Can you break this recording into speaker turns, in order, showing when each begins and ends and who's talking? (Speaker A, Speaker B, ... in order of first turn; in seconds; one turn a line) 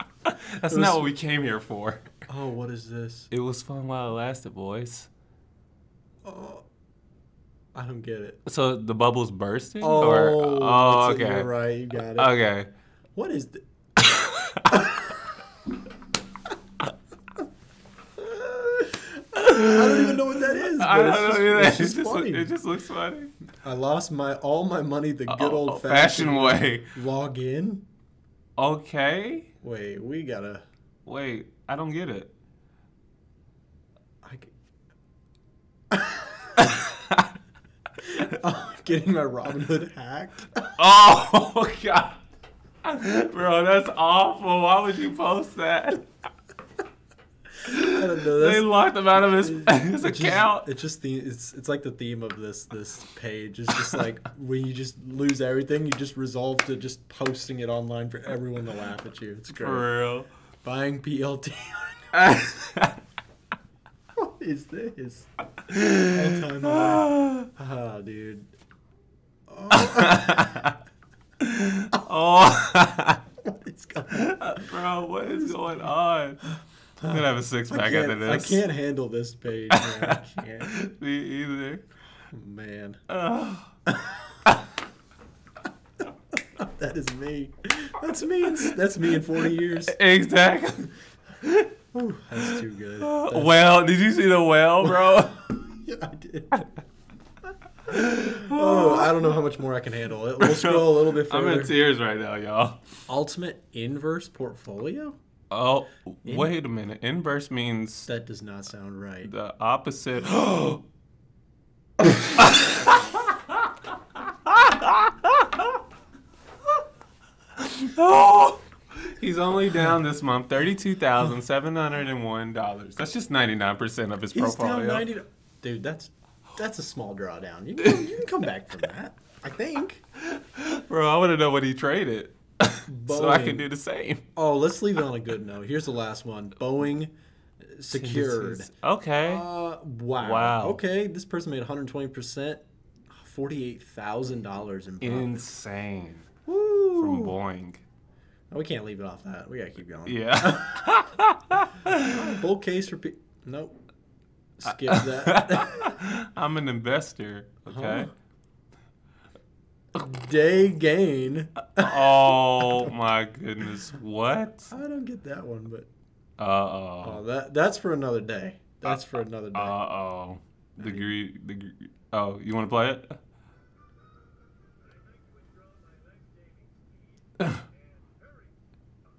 Speaker A: 0.2-2.2
Speaker B: 0.7-1.1
Speaker B: 2.3-3.3
Speaker A: 3.3-5.1
Speaker B: 6.2-6.6
Speaker B: 7.7-8.4
Speaker A: 8.4-11.5
Speaker B: 9.8-12.3
Speaker A: 12.1-12.7
Speaker B: 13.2-13.6
Speaker A: 14.0-14.9
Speaker B: 14.7-15.0
Speaker B: 18.2-22.5
Speaker A: 19.4-23.3
Speaker B: 23.5-27.8
Speaker A: 25.3-26.9
Speaker A: 28.6-29.5
Speaker B: 29.6-30.6
Speaker A: 31.1-32.3
Speaker B: 34.2-34.5
Speaker B: 35.9-36.6
Speaker A: 36.6-37.3
Speaker B: 38.0-40.7
Speaker A: 40.8-42.2
Speaker A: 42.8-46.0
Speaker A: 47.6-50.7
Speaker B: 47.8-59.9
Speaker A: 59.5-60.3
Speaker B: 60.6-62.1
Speaker A: 62.1-63.0
Speaker B: 64.2-65.3
Speaker A: 65.7-67.5
Speaker B: 66.0-68.5
Speaker B: 69.5-70.7
Speaker A: 69.7-70.7
Speaker A: 71.4-73.2
Speaker B: 73.4-74.7
Speaker A: 74.1-76.4
Speaker B: 75.2-75.9
Speaker A: 77.0-78.6
Speaker B: 77.7-80.8
Speaker A: 79.7-81.8
Speaker B: 82.3-83.0
Speaker A: 83.1-83.7
Speaker B: 83.9-84.4
Speaker B: 86.5-90.0
Speaker A: 89.8-91.7
Speaker B: 91.9-93.6
Speaker A: 92.4-95.4
Speaker B: 94.8-96.6
Speaker A: 97.9-99.2
Speaker B: 97.9-101.7
Speaker A: 100.4-102.8
Speaker B: 103.1-105.2
Speaker A: 105.5-108.1
Speaker B: 108.1-109.3
Speaker A: 109.2-110.8
Speaker A: 112.4-113.3
Speaker A: 114.5-115.7
Speaker A: 117.6-125.0
Speaker B: 124.3-130.0
Speaker A: 127.8-128.1
Speaker A: 130.2-134.2
Speaker B: 132.9-133.7
Speaker B: 134.3-137.1
Speaker B: 137.7-138.7
Speaker A: 137.9-139.5
Speaker B: 139.2-145.5
Speaker A: 140.2-140.8
Speaker A: 145.0-146.3
Speaker B: 146.5-147.3
Speaker A: 146.9-147.8
Speaker B: 148.5-150.8
Speaker A: 150.1-152.2
Speaker B: 151.9-153.8
Speaker B: 154.6-155.9
Speaker A: 154.7-158.1
Speaker B: 157.7-158.1
Speaker B: 159.9-162.9
Speaker A: 161.8-164.7
Speaker B: 164.7-165.9
Speaker A: 166.4-167.2
Speaker B: 167.0-169.7
Speaker A: 169.5-173.2